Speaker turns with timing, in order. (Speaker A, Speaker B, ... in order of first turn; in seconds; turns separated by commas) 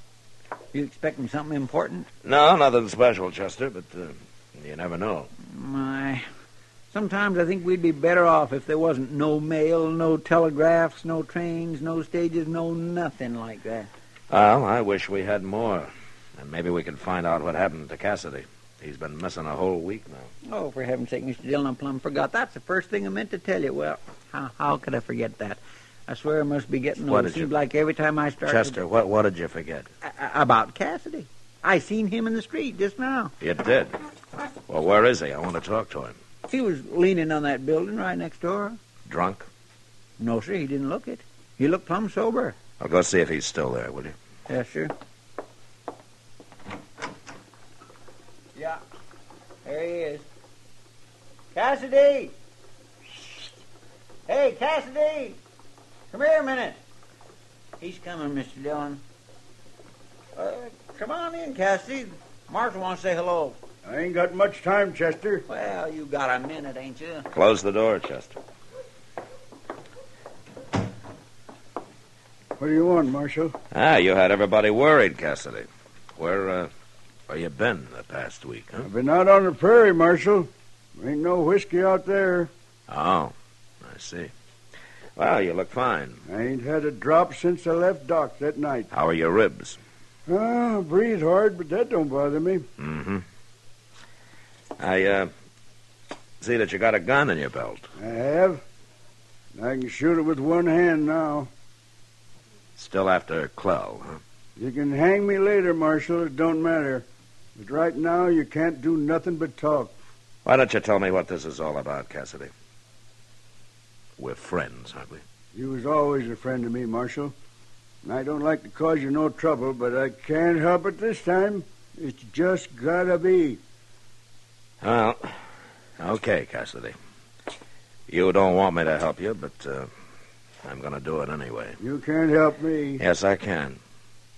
Speaker A: 0.7-2.1, Speaker B: 2.2-5.3, Speaker A: 5.4-6.2, Speaker A: 6.9-13.9, Speaker B: 14.3-20.3, Speaker A: 20.5-28.8, Speaker B: 27.1-27.5, Speaker B: 28.5-29.9, Speaker A: 30.0-33.3, Speaker B: 33.4-34.0, Speaker B: 34.7-36.2, Speaker A: 36.5-38.8, Speaker B: 39.0-39.5, Speaker A: 40.2-42.6, Speaker B: 42.8-44.1, Speaker A: 44.5-44.9, Speaker A: 48.5-48.8, Speaker A: 49.6-50.3, Speaker A: 51.5-52.3, Speaker A: 53.2-53.4, Speaker A: 54.3-55.4, Speaker A: 56.1-56.8, Speaker A: 57.8-59.0, Speaker A: 60.4-63.6, Speaker C: 63.9-65.5, Speaker A: 65.5-67.3, Speaker B: 67.3-68.4, Speaker C: 72.6-73.5, Speaker B: 73.7-76.7, Speaker B: 77.3-78.9, Speaker C: 78.8-82.5, Speaker B: 82.9-84.3, Speaker B: 85.2-86.2, Speaker C: 86.3-88.9, Speaker B: 88.9-89.8, Speaker C: 90.3-92.7, Speaker B: 92.8-93.2, Speaker B: 94.8-95.3, Speaker B: 96.4-97.9, Speaker C: 98.0-98.6, Speaker C: 99.6-101.5, Speaker B: 102.8-104.2, Speaker C: 104.6-110.0, Speaker B: 110.5-112.5, Speaker B: 114.2-115.2, Speaker C: 115.5-117.3, Speaker C: 118.0-123.6, Speaker B: 124.8-125.4, Speaker B: 126.0-127.0, Speaker B: 128.1-129.9, Speaker B: 130.6-131.8, Speaker C: 131.8-133.0, Speaker B: 133.0-133.8